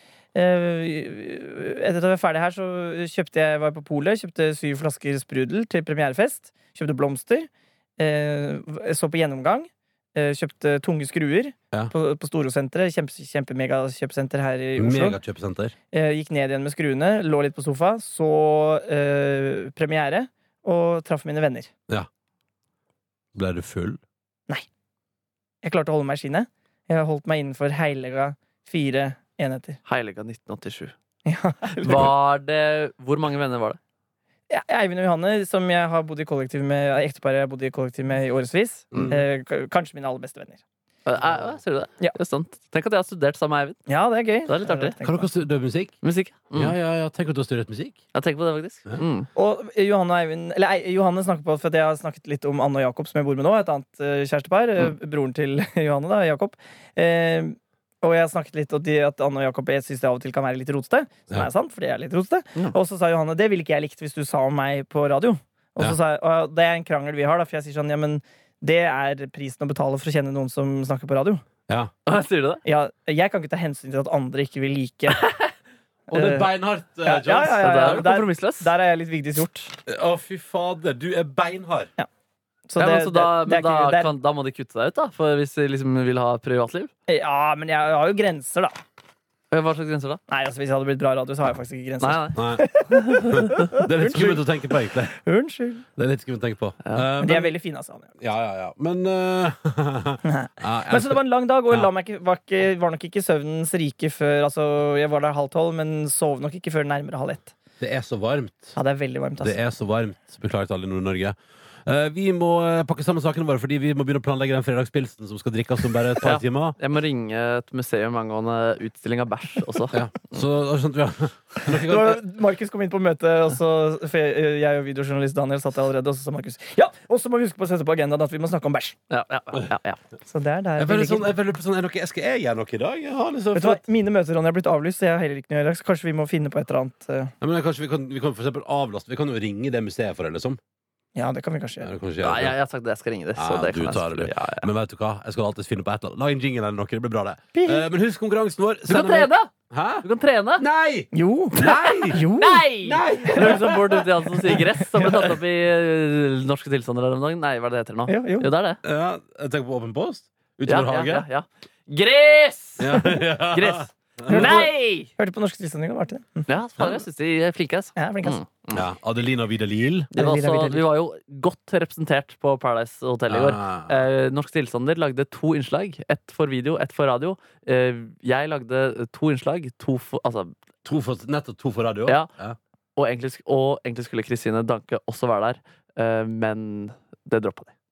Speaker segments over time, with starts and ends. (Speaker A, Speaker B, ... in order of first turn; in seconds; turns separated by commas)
Speaker A: 0.3-15.2, Speaker B: 14.8-15.7, Speaker A: 15.9-21.7, Speaker B: 23.4-24.0, Speaker A: 25.6-29.8, Speaker C: 29.9-30.9, Speaker A: 31.2-32.1, Speaker C: 31.8-33.8, Speaker A: 34.5-40.6, Speaker C: 41.0-43.8, Speaker A: 43.9-45.3, Speaker C: 44.4-45.0, Speaker B: 45.0-46.0, Speaker C: 46.0-46.8, Speaker B: 46.5-48.0, Speaker C: 48.1-49.3, Speaker A: 49.3-71.4, Speaker C: 72.0-72.6, Speaker A: 72.7-75.2, Speaker C: 75.1-75.5, Speaker B: 76.1-78.0, Speaker A: 76.1-76.5, Speaker A: 77.0-79.7, Speaker C: 77.5-78.7, Speaker B: 79.8-81.9, Speaker A: 82.7-84.1, Speaker C: 82.8-86.9, Speaker A: 87.1-88.8, Speaker C: 89.5-90.2, Speaker A: 90.3-95.8, Speaker C: 92.0-92.4, Speaker B: 92.3-92.7, Speaker B: 93.2-95.2, Speaker B: 96.0-97.5, Speaker A: 97.2-98.1, Speaker B: 98.2-101.2, Speaker A: 100.2-107.5, Speaker B: 107.8-108.7, Speaker A: 108.8-109.6, Speaker B: 109.4-116.8, Speaker C: 116.2-120.4, Speaker B: 119.9-122.2, Speaker A: 121.7-129.0, Speaker C: 129.1-130.0, Speaker A: 130.3-131.3, Speaker B: 130.8-133.8, Speaker A: 133.5-137.3, Speaker B: 137.4-140.6, Speaker A: 141.2-141.9, Speaker B: 141.8-142.6, Speaker C: 142.2-144.7, Speaker B: 143.3-150.1, Speaker A: 147.5-147.9, Speaker C: 148.9-150.7, Speaker B: 150.6-152.2, Speaker A: 151.1-153.6, Speaker C: 151.6-158.8, Speaker B: 152.8-154.0, Speaker A: 154.4-155.3, Speaker A: 158.1-158.5, Speaker B: 158.8-161.2, Speaker C: 160.7-165.1, Speaker B: 162.8-164.5, Speaker A: 164.3-166.5, Speaker C: 166.5-168.8, Speaker B: 166.8-167.0, Speaker A: 168.0-168.4, Speaker B: 168.7-170.1, Speaker C: 170.1-180.5, Speaker A: 170.2-170.9, Speaker B: 173.3-174.0, Speaker B: 180.8-182.6, Speaker C: 183.0-187.7